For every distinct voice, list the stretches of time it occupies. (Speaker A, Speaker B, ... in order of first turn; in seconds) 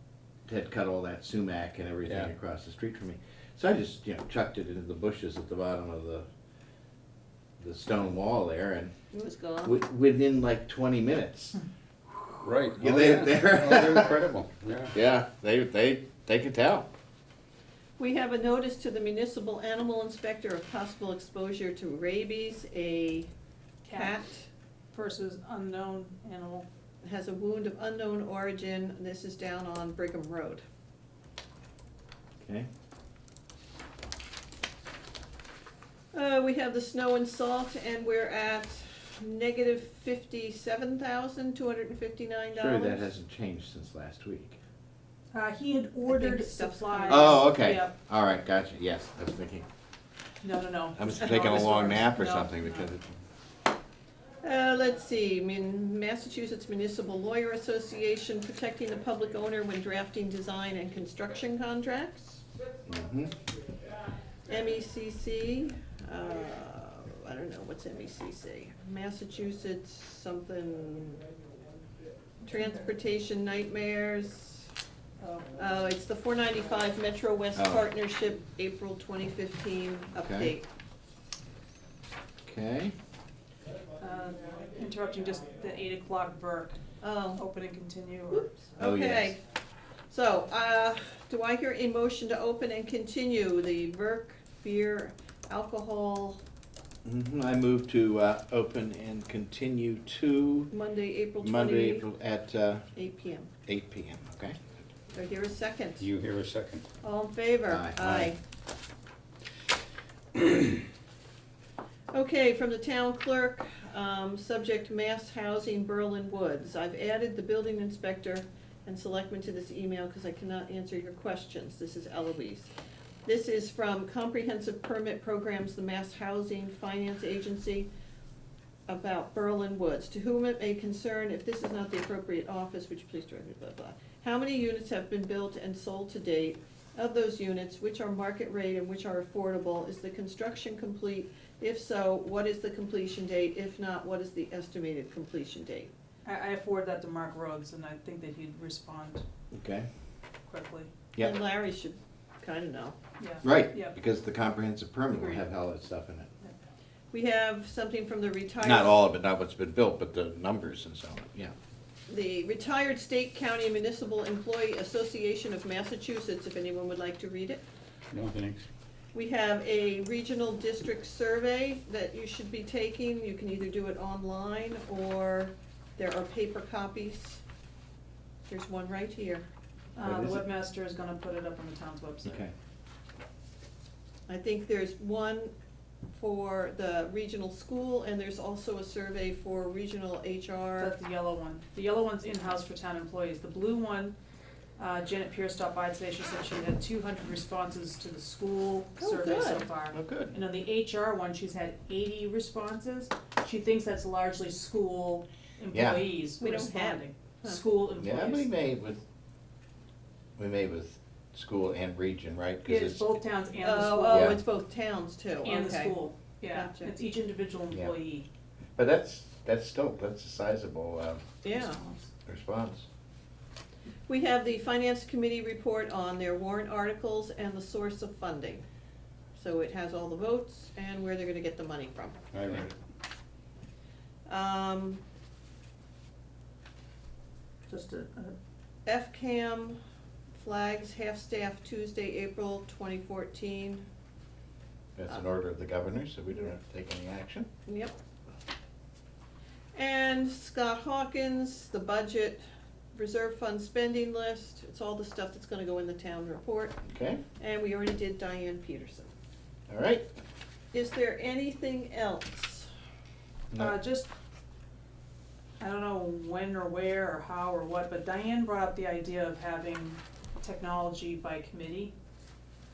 Speaker A: 0.5-6.3, 7.6-8.9, 9.6-11.6, 12.7-14.2, 14.9-16.9, 32.4-32.7, 42.5-44.6, 47.1-49.6, 51.0-53.1, 62.9-63.3, 77.5-77.9, 80.2-80.5, 82.5-82.9, 88.8-89.3, 97.0-100.7, 101.4-102.8, 103.7-104.6, 107.7-108.3, 149.5-149.9, 153.4-156.3, 158.6-161.5, 180.0-180.4, 182.2-182.5, 199.9-200.3, 205.7-206.0, 208.0-209.0, 210.4-213.1, 214.1-214.4, 218.8-221.2, 222.2-222.9, 244.9-247.5, 256.9-257.2, 259.7-260.1
Speaker B: 9.1-9.8, 18.0-23.3, 23.9-24.5, 27.0-30.6, 36.1-43.1, 46.0-47.5, 54.4-62.4, 64.5-71.2, 72.4-74.7, 75.5-80.7, 87.0-87.4, 88.3-89.4, 90.1-96.4, 100.7-102.1, 102.9-103.5, 105.1-106.1, 107.0-108.4, 112.1-122.7, 123.2-127.9, 128.9-145.9, 151.2-152.9, 157.1-159.0, 162.1-167.6, 169.1-177.4, 178.5-179.4, 184.3-185.5, 186.1-190.9, 199.0-199.7, 206.4-207.6, 213.6-216.0, 216.5-216.9, 221.4-221.8, 224.1-228.6, 229.3-232.2, 234.3-235.0, 238.8-239.8, 240.3-243.8, 247.7-247.9, 249.7-252.4, 252.9-256.8, 257.4-259.1, 260.7-262.7
Speaker C: 12.4-14.9, 106.0-106.8, 168.1-168.6, 232.3-232.7
Speaker D: 23.8-24.1, 24.9-26.7, 45.3-47.9, 50.4-53.0, 75.2-75.5, 84.0-86.8, 87.3-88.5, 146.2-149.2, 150.5-150.9, 153.2-153.9, 155.1-155.4, 179.9-182.4, 190.8-194.1, 194.8-208.5, 212.7-214.4, 215.4-218.3, 221.5-222.1, 237.7-238.3, 263.6-264.1, 265.6-271.9